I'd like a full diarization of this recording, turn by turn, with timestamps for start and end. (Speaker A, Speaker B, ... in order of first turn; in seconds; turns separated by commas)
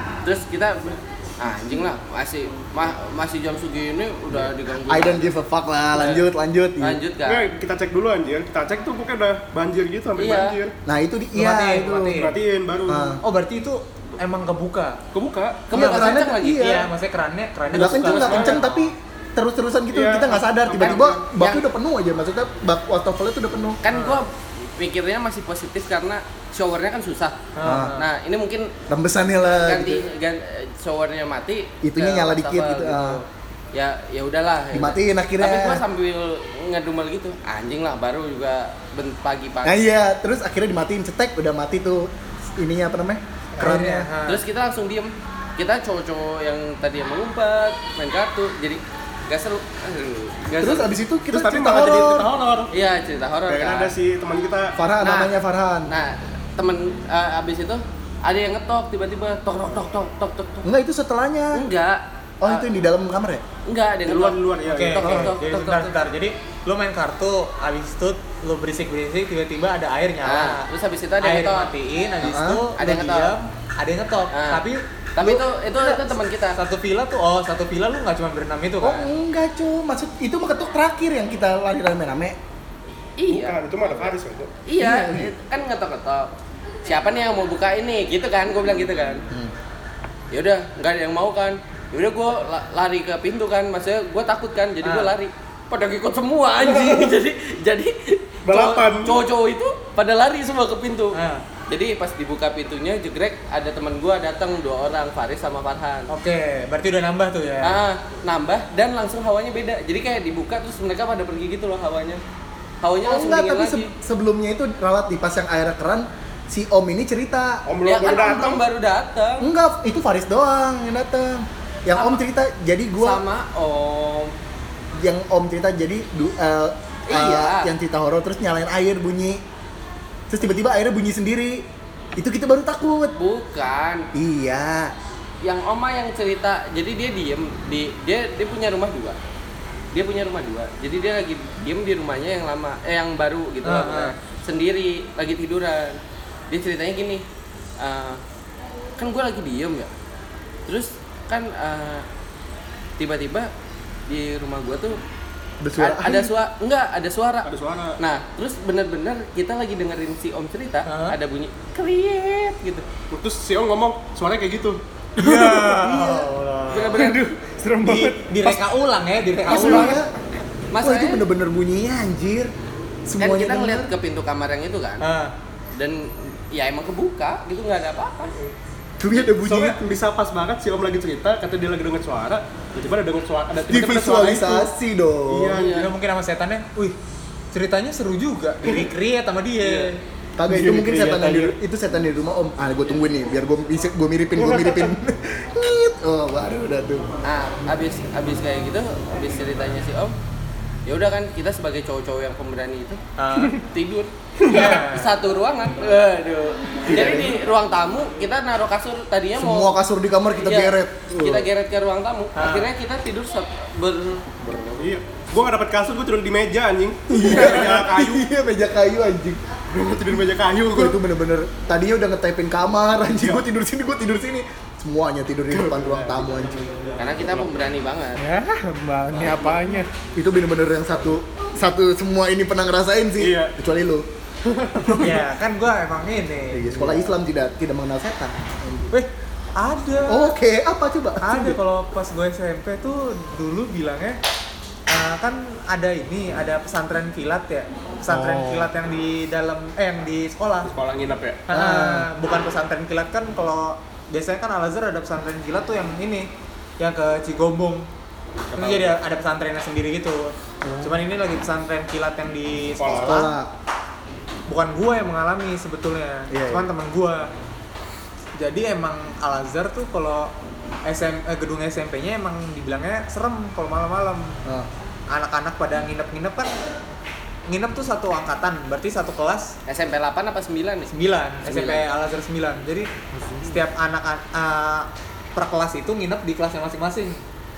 Speaker A: 0.2-5.3, Speaker B: 4.3-7.0, Speaker A: 6.0-6.2, Speaker A: 6.8-7.5, Speaker C: 7.2-10.7, Speaker A: 10.2-10.6, Speaker B: 10.9-12.2, Speaker D: 11.3-12.4, Speaker C: 11.8-13.2, Speaker B: 12.9-13.2, Speaker D: 13.2-15.0, Speaker C: 15.1-15.7, Speaker A: 15.7-16.8, Speaker B: 15.7-16.9, Speaker D: 15.7-18.9, Speaker B: 17.7-23.8, Speaker A: 17.8-18.6, Speaker C: 19.9-21.2, Speaker A: 20.8-21.7, Speaker A: 23.8-27.4, Speaker D: 23.9-24.2, Speaker D: 27.6-28.1, Speaker B: 27.6-28.0, Speaker A: 28.0-28.7, Speaker B: 28.9-30.1, Speaker A: 29.5-39.8, Speaker B: 31.8-33.2, Speaker B: 34.7-35.8, Speaker B: 39.6-44.1, Speaker D: 43.6-44.4, Speaker A: 44.3-50.9, Speaker B: 50.6-52.3, Speaker C: 51.3-52.7, Speaker A: 52.7-53.9, Speaker C: 53.5-54.8, Speaker B: 54.8-55.9, Speaker A: 55.0-55.3, Speaker A: 55.9-60.7, Speaker B: 60.6-61.6, Speaker A: 61.5-62.7, Speaker B: 62.4-63.4, Speaker A: 63.7-65.9, Speaker C: 64.0-65.2, Speaker D: 64.7-70.7, Speaker A: 70.2-71.7, Speaker D: 71.2-79.1, Speaker B: 72.2-72.7, Speaker A: 72.8-73.4, Speaker A: 74.3-74.6, Speaker A: 75.2-76.6, Speaker B: 78.8-82.4, Speaker A: 83.2-83.6, Speaker C: 83.3-84.5, Speaker A: 84.7-86.3, Speaker B: 84.8-85.3, Speaker A: 86.8-89.2, Speaker A: 90.3-101.2, Speaker D: 94.8-95.1, Speaker C: 96.6-97.1, Speaker C: 98.5-99.2, Speaker D: 101.1-101.4, Speaker A: 101.7-106.1, Speaker D: 106.1-107.8, Speaker A: 107.6-112.2, Speaker A: 112.8-113.9, Speaker B: 113.0-117.6, Speaker C: 117.7-118.6, Speaker A: 117.8-119.5, Speaker B: 119.4-123.2, Speaker A: 121.9-122.2, Speaker A: 123.0-124.3, Speaker B: 125.0-129.4, Speaker A: 127.1-127.7, Speaker B: 130.3-131.7, Speaker B: 132.2-133.2, Speaker A: 133.2-134.1, Speaker B: 134.1-134.9, Speaker A: 135.4-139.2, Speaker A: 139.9-146.0, Speaker D: 143.6-144.1, Speaker A: 146.5-147.2, Speaker A: 147.8-148.2, Speaker A: 149.0-149.9, Speaker A: 150.7-152.0, Speaker A: 153.0-153.5, Speaker A: 154.1-155.0, Speaker B: 155.6-156.3, Speaker A: 155.8-162.8, Speaker C: 157.4-158.0, Speaker D: 160.9-161.2, Speaker C: 163.1-164.8, Speaker D: 165.2-167.0, Speaker E: 165.2-168.6, Speaker A: 166.7-167.3, Speaker D: 167.8-170.0, Speaker B: 169.4-170.1, Speaker A: 170.7-171.2, Speaker B: 170.8-172.5, Speaker B: 173.1-173.9, Speaker A: 173.2-175.0, Speaker D: 175.0-175.3, Speaker A: 175.8-178.3, Speaker B: 179.0-179.8, Speaker C: 179.4-184.7, Speaker B: 183.7-185.6, Speaker C: 185.3-185.8, Speaker A: 185.6-185.9, Speaker D: 185.7-187.0, Speaker D: 187.5-190.0, Speaker A: 189.6-189.9, Speaker B: 190.4-197.1, Speaker E: 190.5-191.6, Speaker C: 194.4-194.9, Speaker A: 197.2-200.2, Speaker A: 200.9-203.0, Speaker D: 203.2-203.6, Speaker A: 203.7-209.7, Speaker D: 204.5-205.1, Speaker C: 204.5-204.8, Speaker B: 206.9-207.4, Speaker B: 209.4-211.5, Speaker A: 210.4-214.4, Speaker D: 212.4-212.7, Speaker B: 214.4-214.8, Speaker C: 214.8-218.3, Speaker B: 217.1-219.4, Speaker C: 219.7-221.0, Speaker B: 220.7-226.7, Speaker C: 223.1-223.4, Speaker C: 225.5-227.0, Speaker A: 227.0-228.2, Speaker E: 228.2-229.9, Speaker B: 230.2-234.1, Speaker C: 233.2-233.5, Speaker C: 234.4-235.1, Speaker B: 234.8-235.1, Speaker D: 235.0-236.9, Speaker B: 236.5-238.9, Speaker D: 238.9-240.3, Speaker B: 240.1-241.6, Speaker D: 241.2-244.2, Speaker D: 244.9-250.7, Speaker E: 248.1-248.7, Speaker C: 250.6-251.4, Speaker D: 251.5-257.9, Speaker B: 251.5-252.1, Speaker C: 258.5-259.0, Speaker D: 258.6-263.3, Speaker C: 262.8-263.3, Speaker B: 262.9-263.5, Speaker D: 264.5-267.3, Speaker B: 266.3-266.7, Speaker D: 268.4-270.3, Speaker D: 270.9-274.4, Speaker D: 275.1-276.5, Speaker D: 277.5-279.6, Speaker A: 279.7-280.9, Speaker D: 280.9-282.9, Speaker A: 281.4-281.9, Speaker E: 283.1-283.6, Speaker D: 283.4-287.2